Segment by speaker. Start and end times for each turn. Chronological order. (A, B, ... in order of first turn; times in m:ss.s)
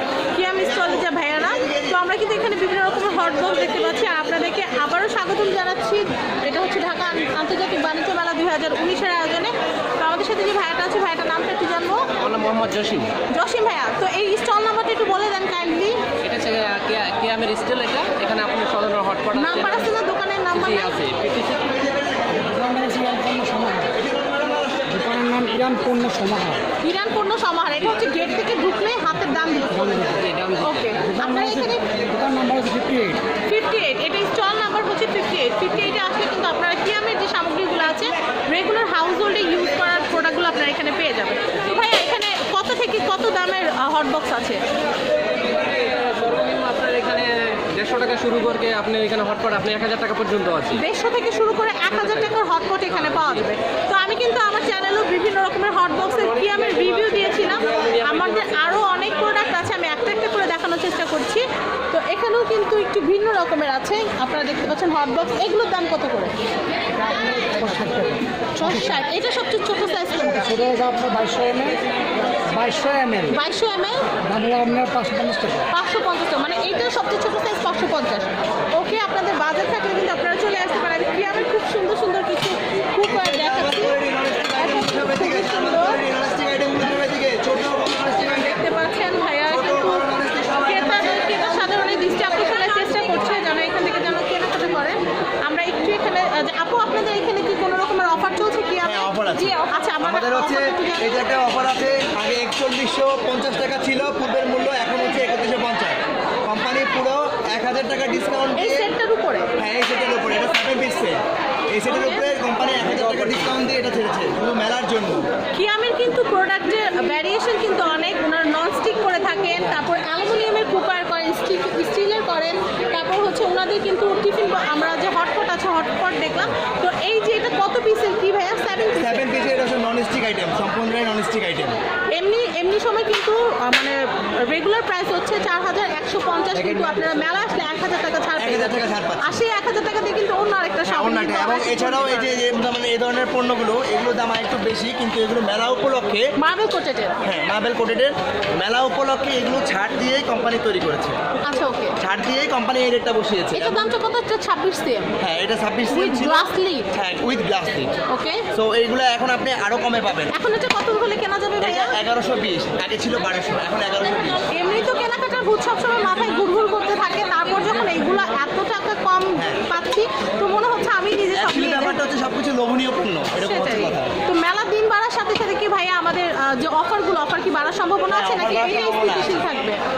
0:00.3-0:12.0 A
0:01.5-0:02.0 B
0:12.2-0:13.1 C
0:13.3-0:16.0 A
0:16.2-0:19.8 C
0:19.3-0:20.9 A
0:20.5-0:21.6 C
0:21.5-0:22.5 B
0:22.4-0:23.9 D
0:23.9-0:25.4 B
0:24.9-0:26.6 D
0:26.8-0:30.0 A
0:29.8-0:30.2 D
0:30.3-0:30.6 C
0:30.6-0:31.8 A
0:31.0-0:33.2 D
0:33.4-0:44.6 A
0:45.7-0:50.7 C
0:50.7-1:06.3 A
0:57.8-0:58.4 C
1:07.3-1:08.9 D
1:08.6-1:10.6 A
1:10.4-1:11.8 D
1:12.4-1:13.4 D
1:13.3-1:14.0 A
1:14.2-1:15.7 D
1:15.7-1:24.0 A
1:23.0-1:28.6 B
1:24.6-1:26.0 A
1:28.1-1:30.1 A
1:29.5-1:31.8 B
1:30.6-1:41.3 A
1:38.8-1:48.9 B
1:48.6-1:49.5 A
1:49.6-1:51.2 B
1:51.7-1:55.3 B
1:51.9-1:52.3 A
1:55.6-2:09.5 A
2:09.0-2:11.8 B
2:12.1-2:22.3 A
2:16.5-2:17.0 B
2:18.4-2:19.4 B
2:20.8-2:26.3 B
2:26.4-2:27.2 A
2:27.2-2:31.2 B
2:31.4-2:31.9 A
2:32.0-2:33.9 B
2:33.5-2:35.1 A
2:35.2-2:38.0 B
2:35.9-2:36.8 A
2:38.1-2:38.4 A
2:38.5-2:40.3 B
2:40.3-2:42.0 A
2:41.6-2:44.4 B
2:44.5-2:52.0 A
2:49.4-2:49.6 B
2:51.3-2:54.2 B
2:53.4-2:59.8 A
2:58.1-2:59.4 B